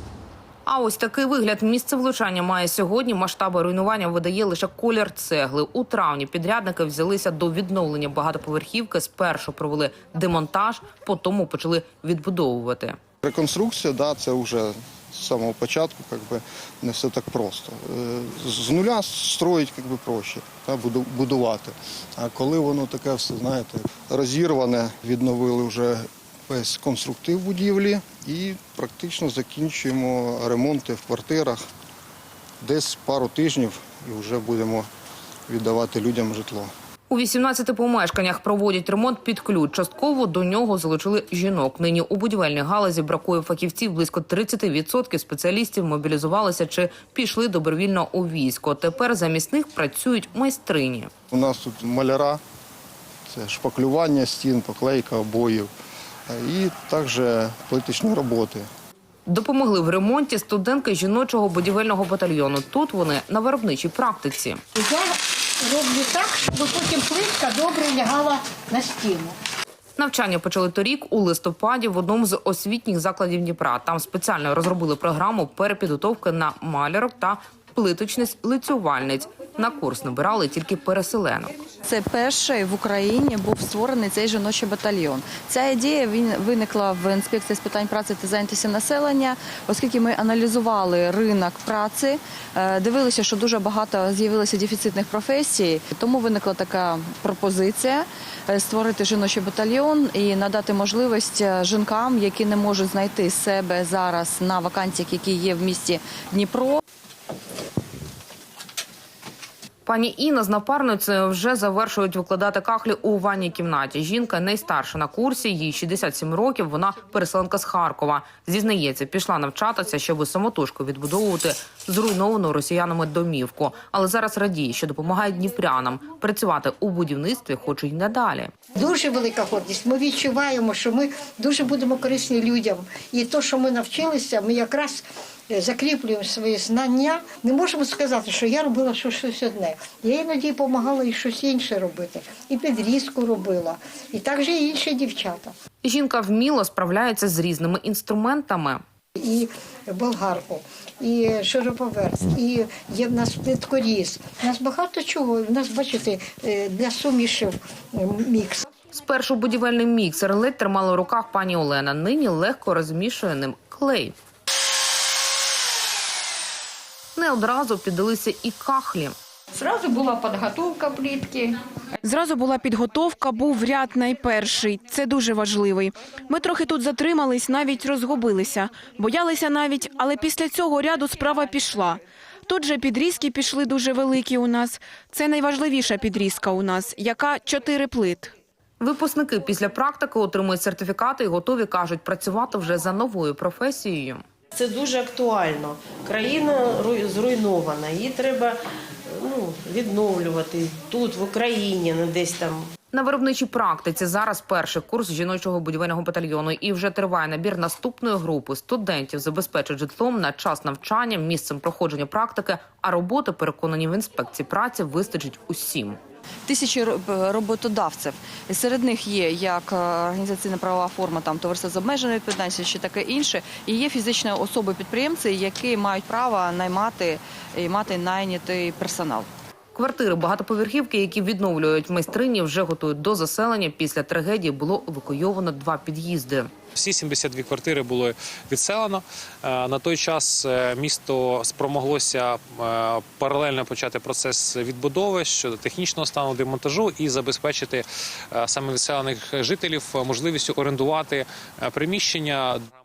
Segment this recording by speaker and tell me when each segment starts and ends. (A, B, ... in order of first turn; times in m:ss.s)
0:00.6-0:13.0 A
0:13.2-0:31.6 B
0:32.6-0:34.9 B
0:35.5-0:36.7 B
0:37.1-0:51.1 A
0:51.3-0:52.4 B
0:53.3-0:55.7 B
0:56.3-0:58.7 B
0:59.3-1:04.6 A
1:04.7-1:09.4 C
1:10.0-1:21.5 A
1:21.8-1:46.8 D
1:49.8-2:08.5 A
2:08.8-2:25.5 C
2:25.8-2:28.8 A
2:29.2-2:38.6 C
2:38.9-2:44.2 A
2:47.2-2:49.2 A
2:49.5-2:51.6 E
2:52.0-3:08.3 F
3:08.8-3:14.2 A
3:14.5-3:22.7 G
3:22.9-3:36.0 A
3:36.4-3:49.3 D
3:49.7-3:56.5 A
3:56.8-4:12.7 H